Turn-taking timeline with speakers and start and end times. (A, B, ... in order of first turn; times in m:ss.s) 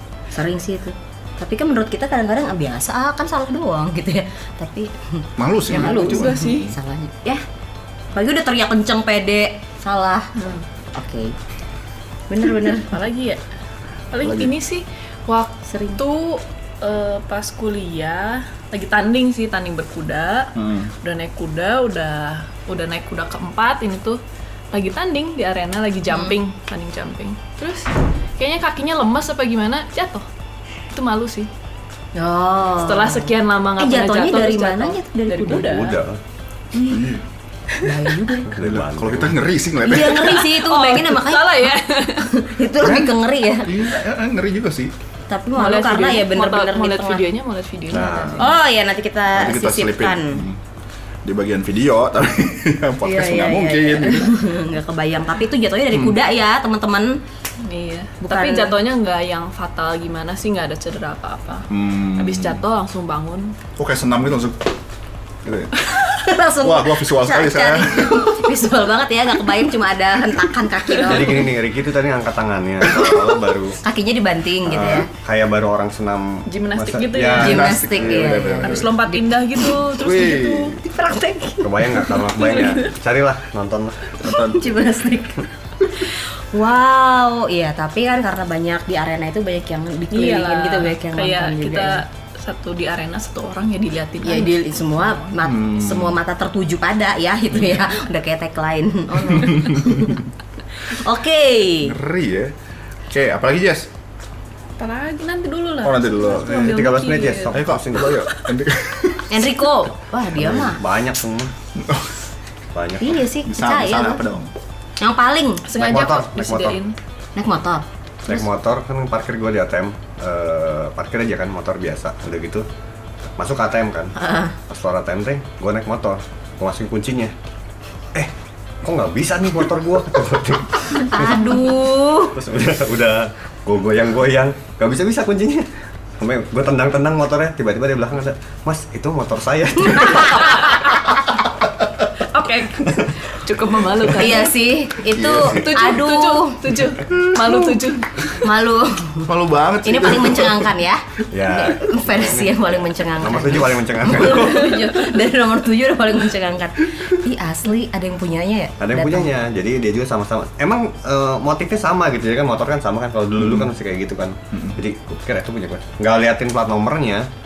0:00.3-0:07.4 A
0:05.4-0:06.6 B
0:05.7-0:06.8 C
0:08.1-0:10.3 A
0:10.4-0:10.6 C
0:10.9-0:11.3 A
0:12.3-0:12.9 A
0:12.9-0:13.4 C
0:14.1-0:24.2 C
0:14.2-0:14.5 B
0:15.6-0:16.0 A
0:20.6-0:20.9 B
0:24.7-0:30.2 C
0:26.1-0:26.4 A
0:30.9-0:31.5 C
0:32.1-0:35.7 A
0:32.8-0:36.0 C
0:35.5-0:36.2 D
0:36.8-0:37.2 B
0:37.8-0:38.5 A
0:38.4-0:39.4 D
0:38.6-0:40.4 B
0:39.8-0:43.7 A
0:40.4-0:42.3 C
0:42.8-0:44.9 B
0:45.3-0:47.2 A
0:45.6-0:48.5 C
0:47.9-0:48.4 D
0:48.4-0:50.4 A
0:49.3-0:50.6 B
0:51.2-0:54.3 B
0:53.0-0:57.2 A
0:55.9-0:56.2 B
0:57.6-1:03.5 C
0:58.2-0:58.8 A
1:01.7-1:02.6 B
1:03.8-1:04.6 B
1:05.4-1:05.7 B
1:06.0-1:11.5 A
1:06.6-1:08.2 B
1:11.0-1:13.8 D
1:13.8-1:15.1 A
1:14.6-1:17.9 D
1:16.5-1:17.7 C
1:17.4-1:18.9 B
1:17.4-1:19.3 A
1:18.2-1:20.8 C
1:20.0-1:20.8 B
1:20.8-1:22.2 A
1:21.6-1:24.0 D
1:22.4-1:22.7 C
1:24.2-1:24.8 B
1:24.2-1:32.0 A
1:30.1-1:35.2 C
1:34.2-1:40.2 A
1:35.4-1:36.2 B
1:39.4-1:40.0 B
1:40.9-1:41.9 A
1:41.8-1:42.5 B
1:43.1-1:43.9 B
1:44.8-1:47.5 C
1:45.8-1:46.7 B
1:46.3-1:48.2 D
1:47.5-1:49.5 B
1:48.2-1:48.5 C
1:49.3-1:50.8 A
1:50.4-1:51.5 D
1:51.8-1:52.1 B
1:52.7-1:53.2 D
1:53.0-1:54.2 A
1:53.4-1:54.5 B
1:55.0-1:55.7 A
1:55.6-1:56.9 C
1:55.7-1:56.8 D
1:57.4-1:57.8 A
1:58.2-2:02.6 D
2:03.4-2:04.1 D
2:04.2-2:04.5 A
2:04.7-2:07.3 D
2:08.8-2:11.7 D
2:11.0-2:12.4 A
2:12.3-2:15.7 D
2:16.2-2:20.6 D
2:20.0-2:21.2 A
2:20.3-2:20.8 C
2:22.2-2:24.5 C
2:24.2-2:26.6 A
2:25.1-2:25.7 B
2:25.5-2:28.5 C
2:28.4-2:29.3 A
2:29.3-2:30.7 B
2:29.8-2:39.3 A
2:31.3-2:34.8 D
2:38.8-2:47.3 D
2:43.4-2:43.7 B
2:44.5-2:44.8 B